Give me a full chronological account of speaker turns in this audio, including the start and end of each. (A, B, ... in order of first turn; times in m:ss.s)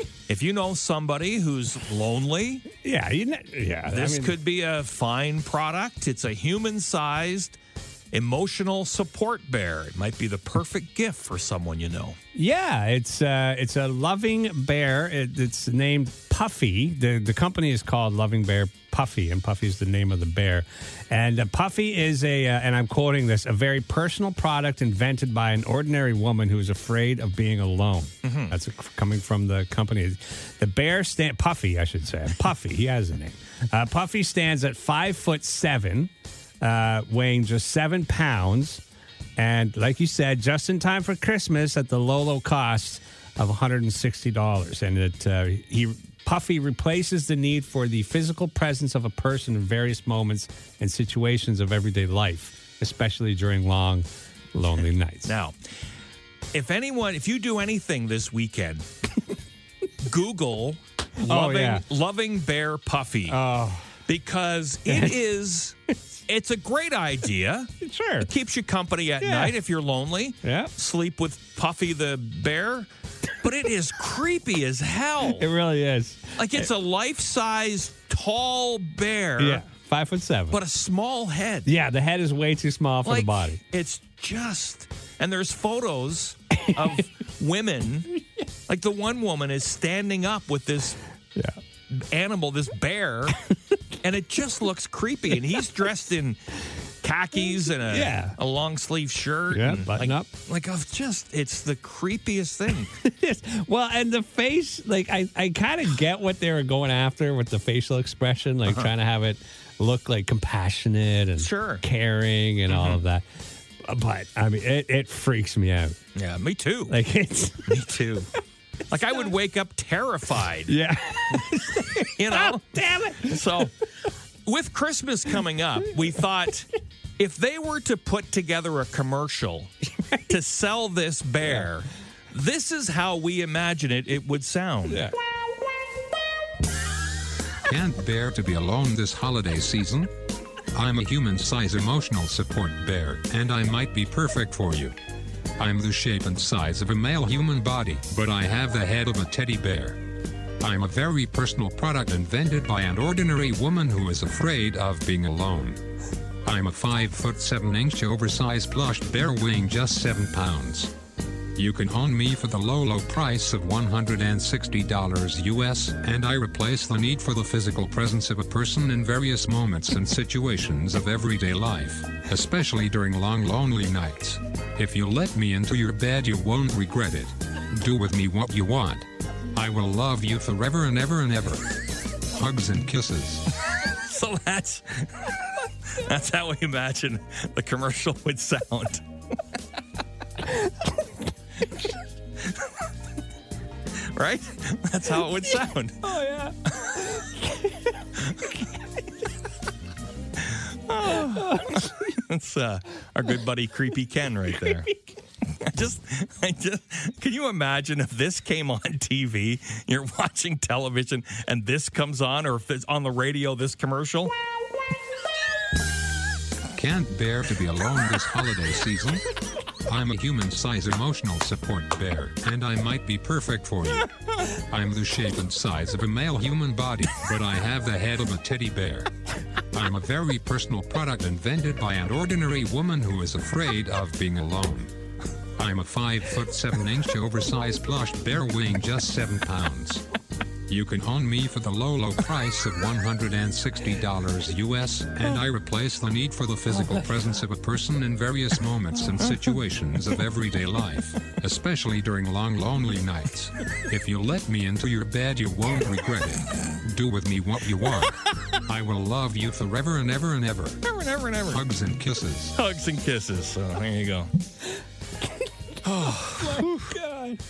0:00.3-0:02.6 A
0:02.8-0:04.4 B
0:03.9-0:07.6 A
0:08.1-0:12.2 A
0:12.3-0:38.8 B
0:28.2-0:28.5 A
0:39.4-0:55.3 B
0:55.2-0:55.6 A
0:56.5-0:58.8 A
1:00.0-1:03.4 A
1:01.3-1:01.8 B
1:03.3-1:04.0 B
1:04.0-1:05.8 A
1:04.9-1:05.2 B
1:06.3-1:15.5 A
1:07.8-1:08.3 B
1:09.2-1:09.5 B
1:10.4-1:10.7 B
1:15.2-1:16.7 B
1:16.4-1:19.6 A
1:19.4-1:20.6 B
1:20.5-1:21.7 A
1:21.6-1:23.6 B
1:23.0-1:28.1 A
1:28.7-1:31.0 A
1:31.9-1:33.4 A
1:34.0-1:42.9 A
1:37.9-1:38.4 B
1:39.5-1:40.3 B
1:43.0-1:53.2 B
1:51.4-1:51.8 A
1:52.7-1:53.0 A
1:53.8-1:55.9 B
1:56.1-1:56.9 A
1:56.9-1:57.9 B
1:57.6-1:58.3 A
1:58.9-2:00.8 A
2:00.7-2:03.4 B
2:01.3-2:03.7 A
2:04.4-2:15.1 A
2:14.9-2:15.1 B
2:17.6-2:20.1 C
2:20.7-2:24.9 C
2:25.6-2:30.0 C
2:30.6-2:35.8 C
2:36.4-2:40.9 C
2:41.6-3:03.4 C
3:03.8-3:09.0 A
3:12.4-3:12.8 A
3:14.0-3:16.2 A
3:16.0-3:17.9 B
3:18.2-3:18.6 A
3:20.4-3:34.3 A
3:21.2-3:21.8 B
3:36.7-3:39.2 C
3:39.9-3:49.1 C
3:49.7-3:54.9 C
3:55.6-4:00.0 C
4:00.7-4:20.8 C
4:18.0-4:18.4 A
4:20.8-4:21.6 A
4:21.5-4:22.6 C
4:22.5-4:24.3 A
4:25.8-4:26.9 A
4:26.4-4:27.4 B